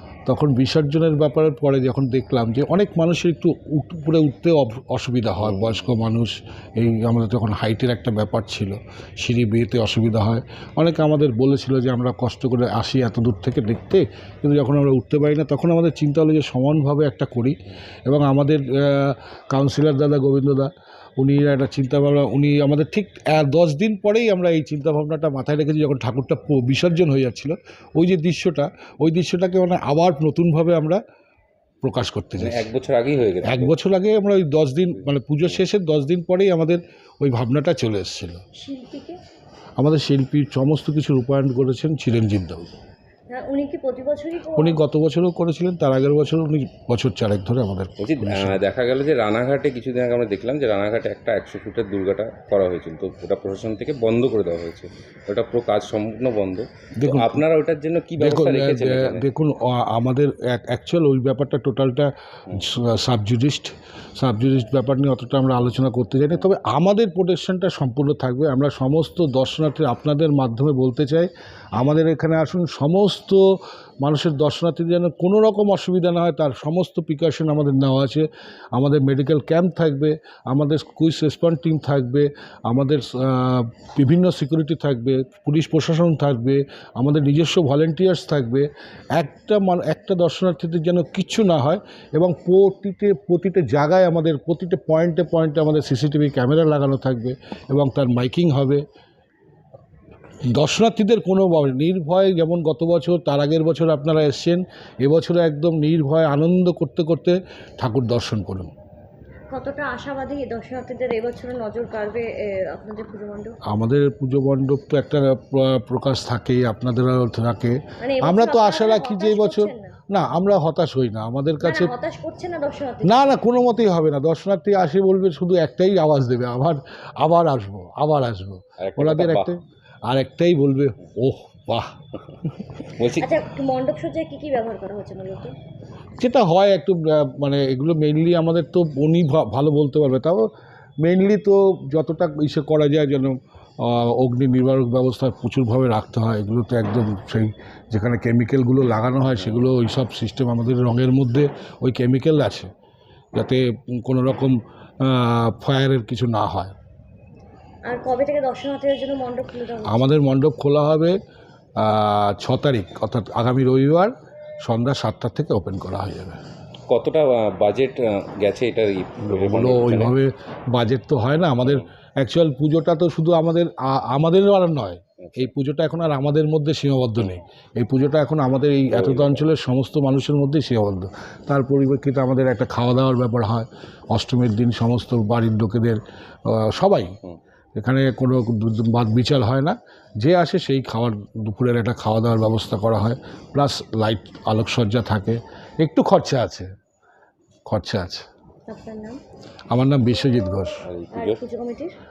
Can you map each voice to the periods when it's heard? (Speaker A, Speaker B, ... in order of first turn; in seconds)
Speaker A: 0.2-31.0, 31.8-32.7, 33.4-38.4, 39.8-42.7, 44.5-48.6, 57.0-57.4, 58.2-73.4, 74.0-98.8, 100.5-108.7, 113.7-121.9, 123.0-131.9, 136.2-140.5, 141.0-152.7, 153.3-156.7, 159.9-161.2, 161.8-164.1, 164.6-166.4, 169.2-187.1, 187.8-196.7, 197.7-198.2, 199.7-200.8
Speaker B: 5.4-5.9, 32.4-33.7, 48.0-59.3, 128.8-129.5, 133.0-133.3, 149.4-149.7, 166.9-170.2, 175.2-175.5, 178.9-179.4, 200.8-201.4
Speaker C: 38.6-39.2, 43.3-44.8, 109.5-113.5, 118.0-119.9, 121.6-123.4, 133.2-135.5, 157.9-160.0, 198.7-199.2, 201.1-201.9